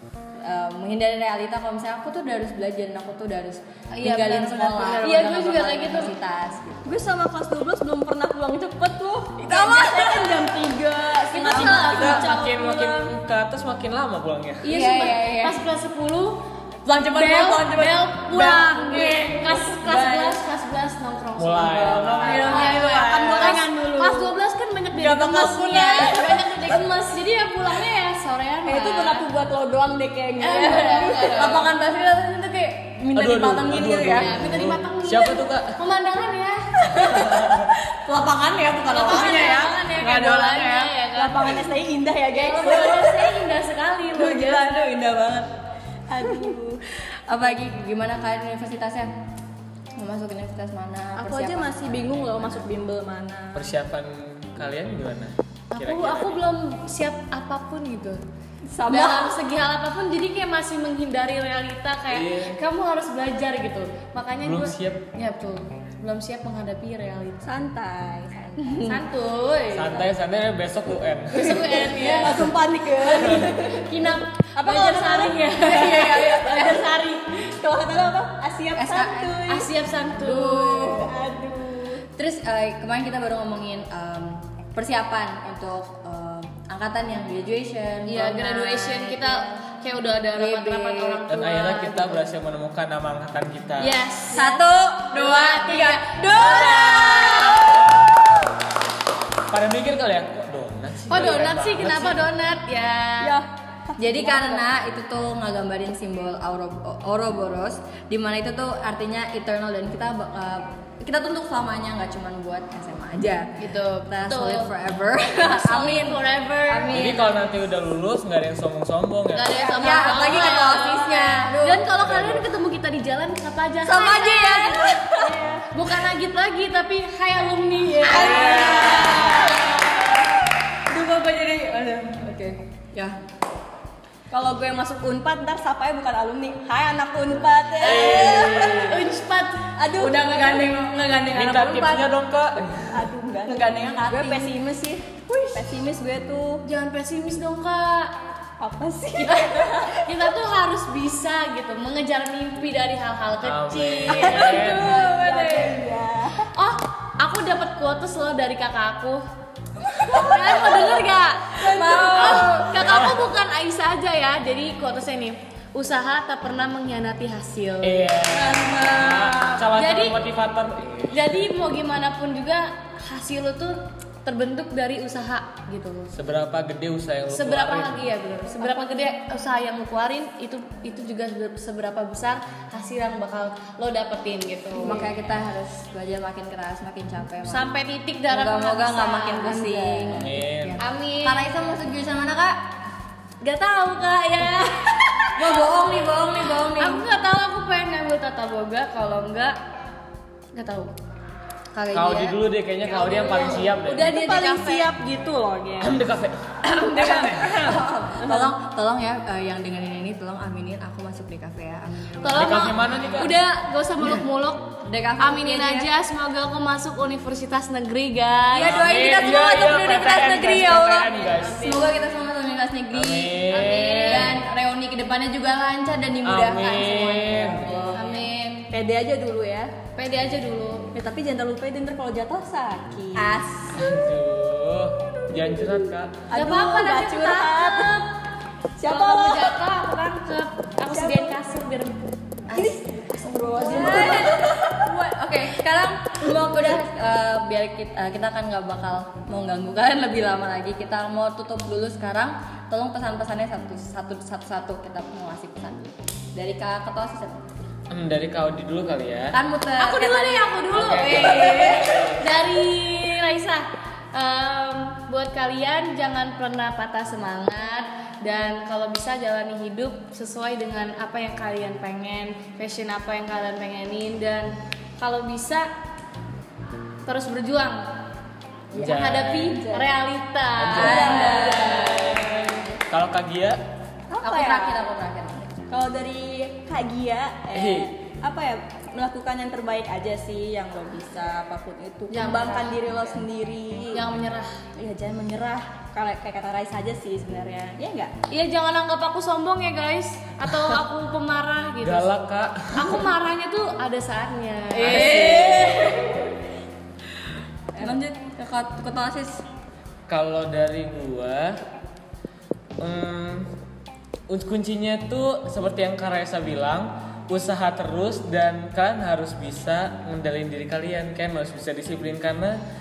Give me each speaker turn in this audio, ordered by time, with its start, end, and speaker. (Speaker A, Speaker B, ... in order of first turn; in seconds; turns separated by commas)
Speaker A: 0.4-6.9, Speaker B: 3.9-6.1, Speaker C: 6.8-13.1, Speaker A: 9.4-10.6, Speaker B: 11.3-12.5, Speaker A: 11.3-11.9, Speaker D: 11.8-14.8, Speaker A: 14.6-15.6, Speaker B: 14.6-16.4, Speaker A: 16.8-20.4, Speaker B: 17.1-29.2, Speaker D: 21.4-22.4, Speaker A: 22.0-23.6, Speaker C: 22.3-24.3, Speaker A: 24.9-26.8, Speaker C: 28.6-30.6, Speaker A: 28.6-29.2, Speaker A: 30.4-34.4, Speaker B: 30.4-31.7, Speaker D: 33.1-35.7, Speaker B: 34.1-36.7, Speaker A: 36.8-41.0, Speaker D: 37.2-37.5, Speaker B: 38.9-41.6, Speaker C: 39.1-39.7, Speaker C: 41.1-43.5, Speaker B: 42.3-44.7, Speaker A: 44.1-45.5, Speaker C: 46.1-47.5, Speaker A: 47.0-49.1, Speaker A: 49.9-52.7, Speaker C: 51.1-53.6, Speaker D: 53.5-56.4, Speaker B: 55.7-58.2, Speaker A: 58.7-59.4, Speaker B: 58.9-67.5, Speaker D: 62.1-62.6, Speaker D: 64.4-65.0, Speaker C: 67.4-68.9, Speaker A: 68.6-69.0, Speaker B: 68.8-70.0, Speaker D: 69.7-71.8, Speaker B: 71.3-72.5, Speaker C: 71.5-73.8, Speaker B: 73.4-77.3, Speaker C: 74.5-79.7, Speaker A: 75.7-76.5, Speaker A: 78.7-79.4, Speaker B: 79.5-81.0, Speaker A: 80.1-81.1, Speaker C: 80.9-82.0, Speaker A: 82.1-89.5, Speaker B: 88.0-92.1, Speaker A: 90.3-91.3, Speaker D: 91.3-94.0, Speaker A: 91.8-92.2, Speaker B: 93.8-94.5, Speaker A: 94.3-98.0, Speaker C: 94.3-94.7, Speaker B: 95.1-97.8, Speaker C: 96.3-98.0, Speaker D: 99.5-102.3, Speaker B: 101.1-103.4, Speaker C: 103.2-104.7, Speaker A: 104.0-117.4, Speaker B: 113.6-114.7, Speaker B: 115.3-117.2, Speaker D: 116.9-119.6, Speaker B: 119.3-125.1, Speaker A: 119.6-121.9, Speaker C: 119.6-120.8, Speaker D: 122.0-122.5, Speaker A: 123.8-125.4, Speaker C: 125.2-125.7, Speaker B: 125.7-129.0, Speaker A: 128.0-130.0, Speaker C: 128.1-129.9, Speaker D: 128.2-129.2, Speaker A: 130.9-133.2, Speaker C: 134.3-139.0, Speaker D: 137.8-139.1, Speaker B: 137.8-139.7, Speaker C: 139.8-140.7, Speaker A: 140.0-142.1, Speaker D: 141.3-143.0, Speaker C: 142.9-146.6, Speaker A: 143.4-144.7, Speaker A: 145.4-145.8, Speaker B: 146.6-148.1, Speaker C: 148.6-150.1, Speaker B: 149.2-155.3, Speaker D: 153.4-154.9, Speaker C: 154.1-156.4, Speaker A: 154.3-155.8, Speaker B: 156.5-159.2, Speaker C: 160.0-162.6, Speaker B: 160.0-170.2, Speaker A: 161.6-163.0, Speaker D: 162.8-163.2, Speaker D: 167.8-171.4, Speaker B: 171.1-176.1, Speaker D: 176.1-177.9, Speaker B: 177.3-185.2, Speaker A: 178.6-178.8, Speaker A: 184.7-187.7, Speaker B: 187.4-190.2, Speaker A: 188.3-192.6, Speaker D: 190.2-190.8, Speaker B: 190.8-191.5, Speaker B: 193.4-195.9, Speaker A: 195.3-197.0, Speaker B: 196.8-199.6, Speaker B: 200.5-200.9, Speaker A: 201.7-202.4, Speaker D: 201.9-204.1, Speaker B: 202.9-204.9, Speaker C: 203.8-206.0, Speaker D: 205.8-207.6, Speaker A: 206.8-213.3, Speaker C: 207.3-208.5, Speaker B: 212.2-219.1, Speaker D: 212.3-213.3, Speaker A: 214.8-215.9, Speaker A: 218.5-228.3, Speaker D: 218.6-221.7, Speaker B: 220.7-221.9, Speaker D: 222.9-224.4, Speaker B: 223.5-224.4, Speaker D: 226.2-227.9, Speaker B: 227.9-228.7, Speaker C: 228.7-229.7, Speaker B: 229.9-230.9, Speaker C: 230.9-233.3, Speaker A: 233.1-234.0, Speaker D: 233.7-236.2, Speaker C: 236.3-238.0, Speaker B: 236.3-238.1, Speaker C: 238.8-239.6, Speaker B: 238.8-242.0, Speaker C: 240.9-241.3, Speaker C: 242.5-244.9, Speaker A: 243.5-257.4, Speaker B: 243.7-244.1, Speaker C: 246.2-246.8, Speaker D: 257.9-259.4, Speaker A: 259.3-262.0, Speaker B: 259.8-275.7, Speaker D: 260.7-262.2, Speaker B: 277.0-277.8, Speaker D: 278.7-279.6, Speaker B: 278.7-281.8, Speaker D: 280.6-281.4, Speaker A: 280.7-282.2, Speaker C: 280.8-282.6, Speaker D: 282.9-283.6, Speaker C: 284.1-284.9, Speaker A: 284.2-285.7, Speaker C: 285.7-294.1, Speaker D: 287.5-287.9, Speaker B: 292.1-293.2, Speaker B: 293.9-294.6, Speaker C: 294.8-298.1, Speaker B: 298.3-302.1, Speaker D: 301.8-303.1, Speaker B: 302.7-305.7, Speaker A: 304.7-306.3, Speaker D: 304.8-305.2, Speaker A: 307.7-309.4, Speaker D: 310.1-311.6, Speaker D: 312.8-313.5, Speaker D: 314.3-322.5